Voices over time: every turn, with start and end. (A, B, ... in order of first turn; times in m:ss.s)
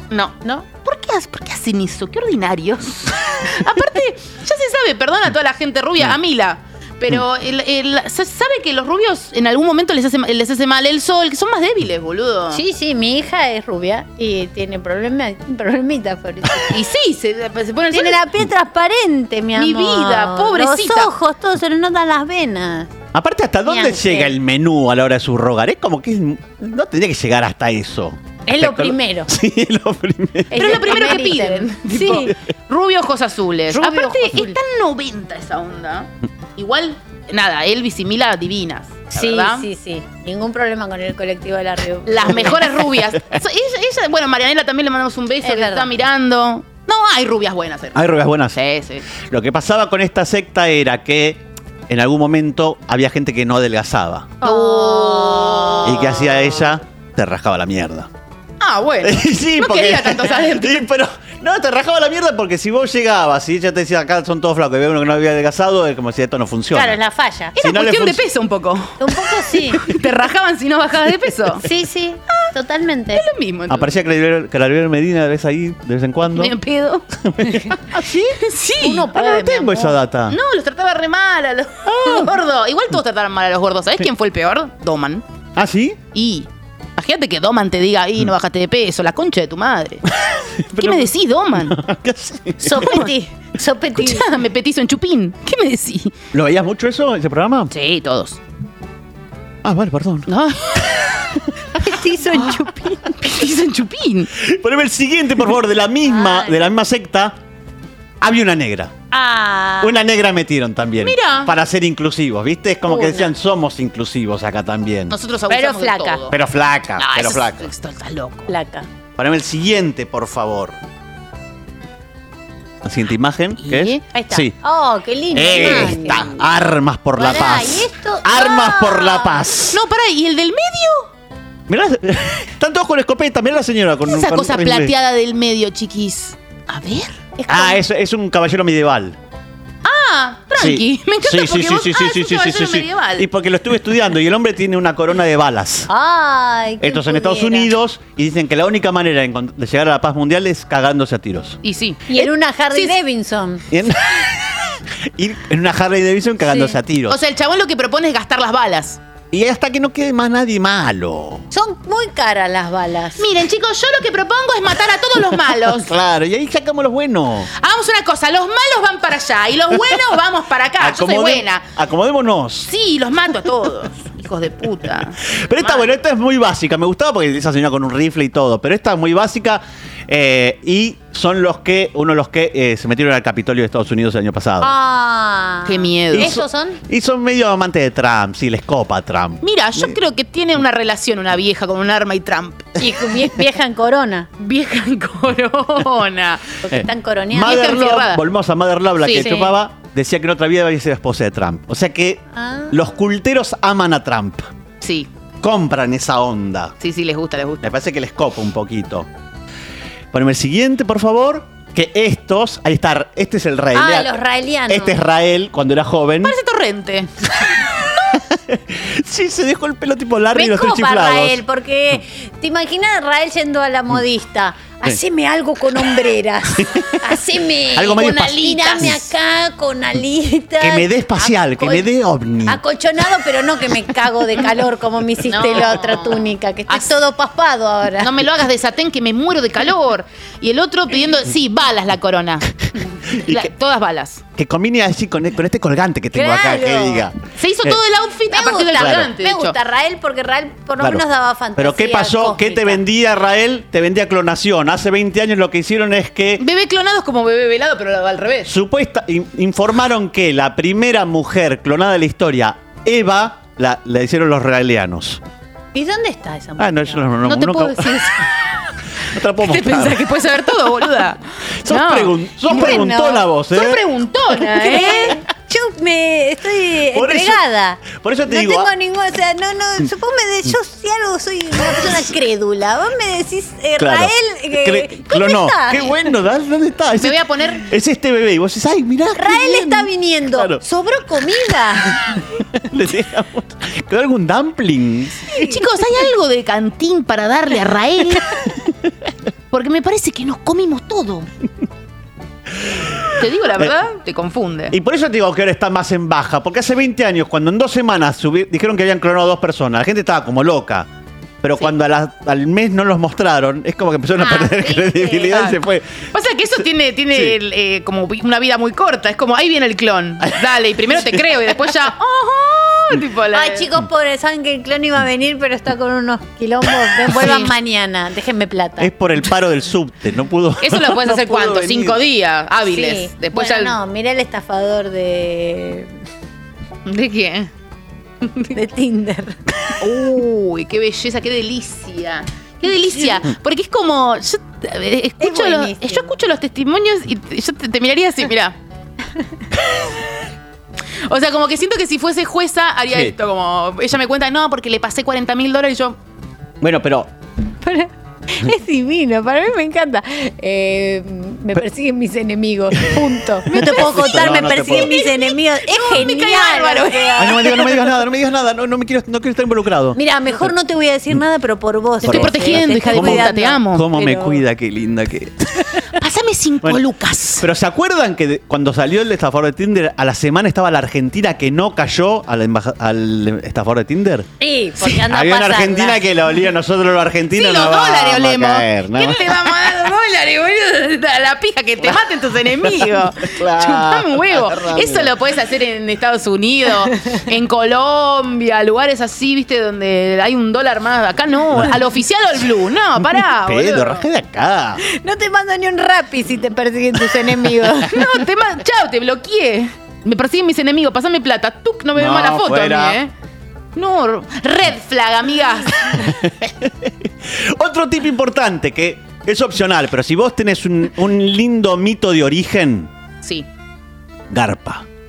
0:00.1-0:12.6 A
0:12.5-0:16.8 B
0:16.7-0:18.2 A
0:17.9-0:22.9 B
0:19.6-0:21.1 A
0:23.1-0:30.8 C
0:23.7-0:24.3 B
0:28.5-0:29.3 B
0:30.5-0:32.3 B
0:30.5-0:39.7 A
0:33.7-0:34.6 B
0:39.1-0:42.7 B
0:42.1-0:49.1 A
0:45.4-0:45.9 B
0:48.0-0:48.6 C
0:49.2-0:54.4 C
0:54.4-0:56.1 B
0:54.4-0:56.2 A
0:55.8-0:58.1 C
0:58.6-1:00.9 A
0:59.0-1:07.0 C
1:06.7-1:07.6 B
1:07.6-1:11.6 A
1:07.6-1:08.2 C
1:09.0-1:09.8 B
1:11.6-1:13.2 B
1:13.1-1:14.0 A
1:13.7-1:16.5 C
1:16.3-1:17.0 A
1:17.2-1:18.4 C
1:18.4-1:19.2 A
1:18.8-1:20.0 B
1:19.1-1:20.4 C
1:20.3-1:25.2 A
1:21.9-1:22.2 C
1:25.6-1:26.0 C
1:26.1-1:30.0 A
1:30.2-1:33.0 C
1:30.8-1:31.8 A
1:32.6-1:34.3 B
1:32.8-1:33.1 A
1:34.0-1:36.1 A
1:36.3-1:37.7 C
1:37.7-1:38.4 A
1:39.6-1:40.3 C
1:40.3-1:41.0 A
1:41.8-1:43.2 B
1:42.3-1:42.7 A
1:43.2-1:44.3 A
1:44.4-1:47.4 C
1:46.1-1:46.6 B
1:48.2-1:48.9 C
1:49.1-1:50.0 B
1:49.8-1:55.2 C
1:51.0-1:51.5 A
1:52.9-1:53.3 B
1:55.1-1:56.4 A
1:55.5-1:56.2 B
1:56.3-1:57.7 C
1:57.0-1:58.5 A
1:58.5-1:58.9 B
1:59.2-2:00.8 C
2:02.8-2:04.5 C
2:03.6-2:04.0 A
2:04.1-2:06.4 B
2:05.3-2:09.8 C
2:05.5-2:06.2 A
2:07.2-2:09.5 B
2:09.7-2:11.1 A
2:11.7-2:14.9 C
2:14.1-2:17.2 A
2:17.4-2:17.8 B
2:17.5-2:19.2 C
2:19.8-2:23.3 A
2:20.6-2:25.9 C
2:25.9-2:27.7 B
2:26.8-2:31.6 C
2:31.6-2:33.0 A
2:32.1-2:33.6 B
2:33.7-2:34.6 C
2:35.2-2:37.2 C
2:37.1-2:39.0 A
2:39.3-2:41.4 C
2:41.5-2:43.3 B
2:43.2-2:45.9 A
2:45.7-2:47.5 C
2:47.6-2:51.7 A
2:50.8-2:52.7 C
2:52.7-2:56.0 A
2:55.3-3:04.7 C
3:04.6-3:06.8 B
3:05.7-3:06.4 A
3:06.1-3:10.0 C
3:09.4-3:12.8 A
3:12.8-3:14.3 B
3:14.4-3:16.6 A
3:16.7-3:24.5 C
3:16.8-3:17.7 B
3:17.4-3:18.2 A
3:19.0-3:19.5 A
3:22.4-3:22.8 B
3:24.8-3:25.1 A
3:25.4-3:26.7 C
3:26.8-3:27.6 A
3:27.6-3:29.1 C
3:30.1-3:34.1 C
3:33.8-3:35.0 B
3:34.7-3:36.4 C
3:36.2-3:37.1 A
3:38.2-3:41.4 C
3:40.3-3:51.9 B
3:46.6-3:47.0 C
3:47.8-3:49.0 C
3:48.0-3:49.0 A
3:50.6-3:52.6 C
3:52.5-3:58.1 B
3:55.3-3:56.9 A
3:58.0-4:02.5 A
4:03.1-4:04.2 A
4:03.2-4:03.5 C
4:04.4-4:07.8 C
4:06.1-4:07.1 B
4:07.4-4:09.6 A
4:08.3-4:12.8 B
4:08.8-4:09.1 C
4:11.6-4:16.4 C
4:16.4-4:18.5 A
4:18.5-4:25.2 C
4:25.7-4:27.0 B
4:26.6-4:28.0 C
4:27.2-4:28.4 A
4:29.0-4:30.0 C
4:29.4-4:32.8 A
4:31.6-4:33.8 C
4:32.5-4:33.3 B
4:33.5-4:35.2 A
4:34.4-4:46.0 B
4:36.9-4:38.7 C
4:43.8-4:50.6 C
4:47.0-4:47.7 A
4:49.2-4:52.2 B
4:52.6-4:55.2 C
4:55.3-4:58.3 A
4:59.5-5:01.3 A
5:03.0-5:03.8 C
5:03.2-5:04.8 A
5:04.7-5:10.9 C
5:11.4-5:16.0 C
5:14.2-5:15.4 B
5:15.3-5:15.6 A
5:16.1-5:23.7 A
5:23.3-5:28.9 B
5:27.1-5:27.5 A
5:28.8-5:32.0 C
5:30.6-5:33.8 A
5:32.7-5:35.9 B
5:36.9-5:37.5 A
5:38.2-5:38.5 A
5:38.5-5:39.4 B
5:39.8-5:48.6 A
5:45.2-5:46.1 B
5:51.1-5:56.0 A
5:56.6-5:57.1 C
5:57.6-6:07.8 B
6:03.5-6:07.7 A
6:03.5-6:04.9 C
6:07.2-6:10.5 C
6:10.0-6:14.4 B
6:12.0-6:15.7 C
6:12.0-6:13.9 A
6:16.0-6:17.5 A
6:17.4-6:24.3 C
6:24.4-6:26.0 B
6:24.9-6:29.4 C
6:27.3-6:44.1 A
6:33.2-6:35.1 C
6:43.1-6:44.8 C
6:44.9-6:48.0 B
6:47.8-6:53.1 A
6:52.0-6:53.0 C
6:53.8-6:56.0 A
6:56.0-7:02.9 C
7:03.2-7:03.5 A
7:04.3-7:04.8 C